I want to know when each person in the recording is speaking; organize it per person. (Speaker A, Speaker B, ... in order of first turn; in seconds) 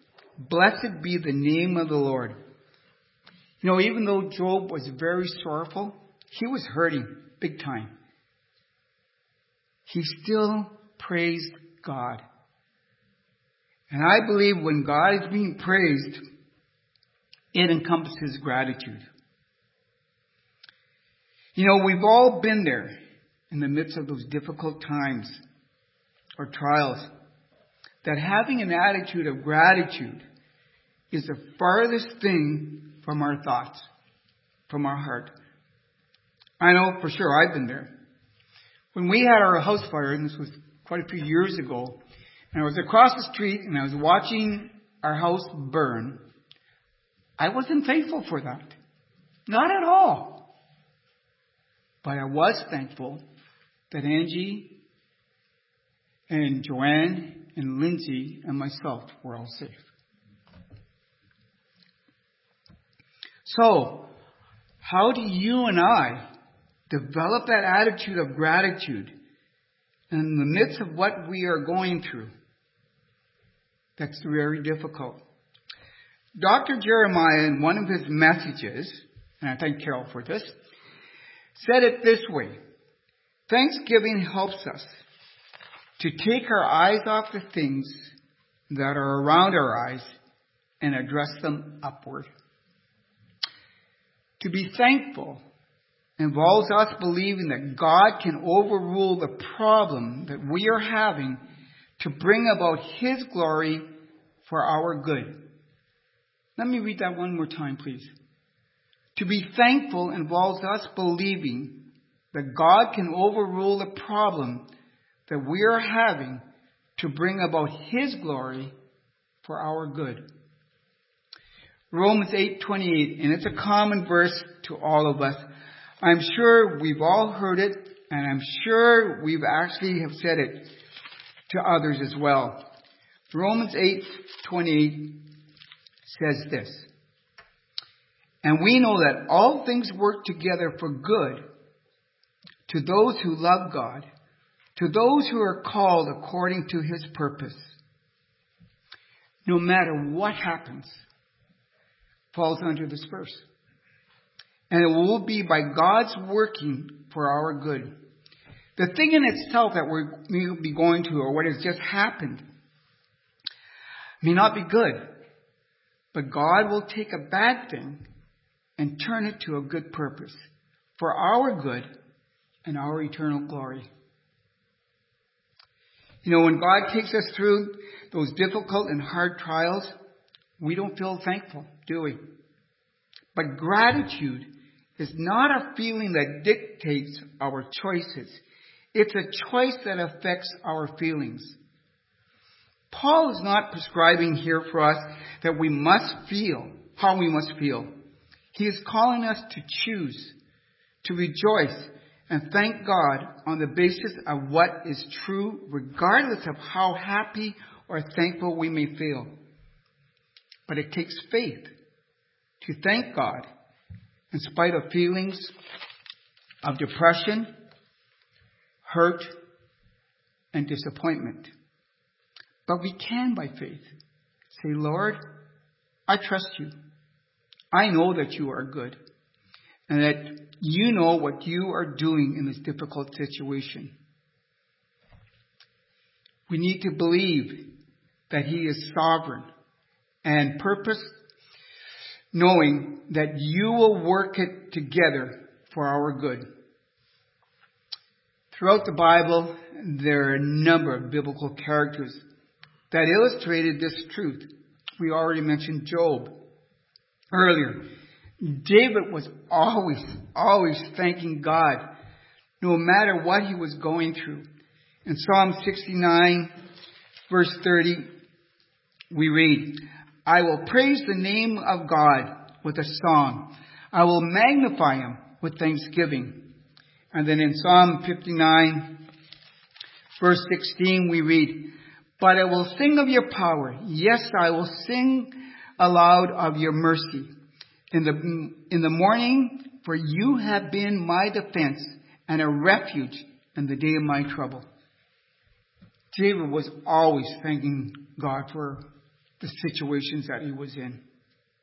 Speaker A: 0.4-2.4, 3.6-7.9, 9.9-12.2, 13.9-16.2, 17.5-19.0, 21.6-22.9, 23.5-25.4, 26.4-27.1, 28.0-30.2, 31.1-33.9, 34.7-35.3, 36.6-37.9, 38.9-42.0, 42.5-46.2, 47.4-48.7, 49.5-50.5, 52.0-53.2, 53.9-54.8, 56.3-59.8, 63.4-64.1, 64.8-66.2, 66.9-69.1, 70.1-72.3, 74.0-75.2, 76.4-80.5, 81.5-82.6, 83.5-84.9, 86.0-88.1, 88.7-90.1, 90.8-92.3, 94.4-95.4, 96.2-101.4, 102.0-103.8, 104.5-105.4, 106.6-108.1, 109.2-114.7, 115.3-116.4, 117.0-118.7, 119.4-120.2, 121.9-125.5, 126.0-130.7, 131.5-132.6, 133.3-135.2, 136.1-136.9, 138.4-141.4, 142.7-144.1, 144.8-147.6, 149.4-151.0, 152.3-153.4, 154.7-157.9, 158.8-162.4, 164.2-165.1, 166.1-168.0, 168.8-170.3, 171.0-171.9, 172.6-173.9, 176.2-179.9, 180.6-182.2, 183.3-188.4, 188.9-191.6, 192.9-197.9, 198.5-200.3, 201.0-209.3, 210.7-211.7, 212.6-213.5, 214.3-215.5, 216.6-217.5, 218.8-219.3, 220.5-221.5, 222.7-223.9, 224.5-225.2, 226.1-226.7, 227.7-229.0, 229.9-233.9, 236.5-237.7, 238.3-239.5, 240.2-241.1, 242.3-246.4, 248.5-252.2, 252.9-256.3, 257.3-257.9, 258.4-261.8, 262.6-264.4, 265.0-266.5, 267.3-268.1, 269.1-276.5, 277.1-279.0, 280.2-287.3, 287.9-294.6, 296.1-298.8, 299.4-301.0